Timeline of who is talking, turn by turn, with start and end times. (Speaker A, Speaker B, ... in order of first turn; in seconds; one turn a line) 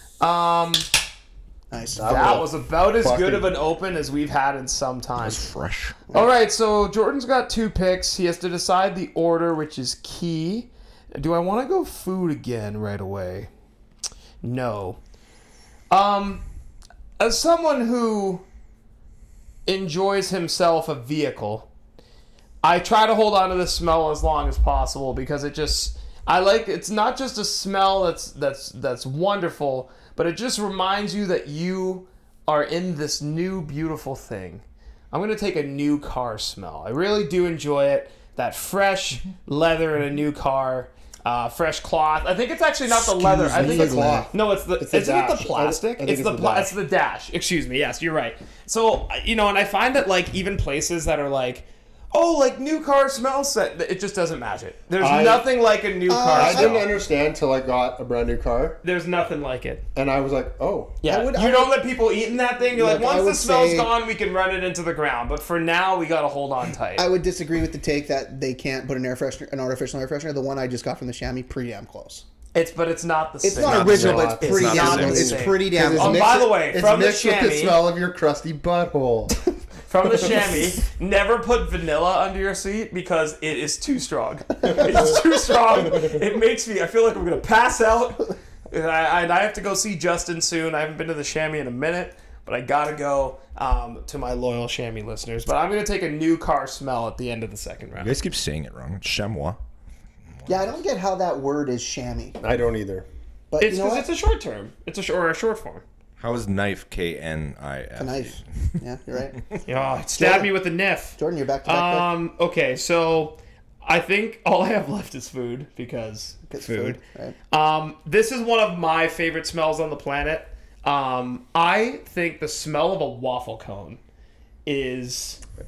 Speaker A: 0.2-0.9
Speaker B: 1.7-2.5
Speaker C: 2.0-3.5
Speaker A: 2.0-5.4
Speaker D: 5.2-6.0
Speaker A: 6.1-13.5
Speaker A: 14.4-15.0
Speaker A: 15.9-16.4
Speaker A: 17.2-18.4
Speaker A: 19.6-21.7
Speaker A: 22.6-56.9
Speaker B: 42.9-44.3
Speaker C: 43.5-46.7
Speaker C: 55.0-55.5
Speaker B: 56.1-56.8
Speaker C: 56.3-58.8
Speaker A: 58.8-59.8
Speaker C: 59.9-61.0
Speaker A: 61.0-67.1
Speaker B: 61.0-61.8
Speaker B: 62.7-63.9
Speaker B: 67.0-72.2
Speaker A: 72.5-77.8
Speaker B: 73.4-76.5
Speaker D: 73.6-75.4
Speaker C: 73.7-79.4
Speaker A: 79.9-98.2
Speaker C: 84.7-85.1
Speaker D: 98.0-99.6
Speaker B: 100.5-102.4
Speaker C: 102.4-103.0
Speaker B: 103.5-104.1
Speaker A: 103.6-105.8
Speaker D: 106.2-108.4
Speaker B: 108.0-109.5
Speaker A: 109.6-117.0
Speaker B: 110.2-110.5
Speaker B: 111.2-112.1
Speaker B: 116.5-117.3
Speaker A: 117.5-124.0
Speaker A: 124.7-125.4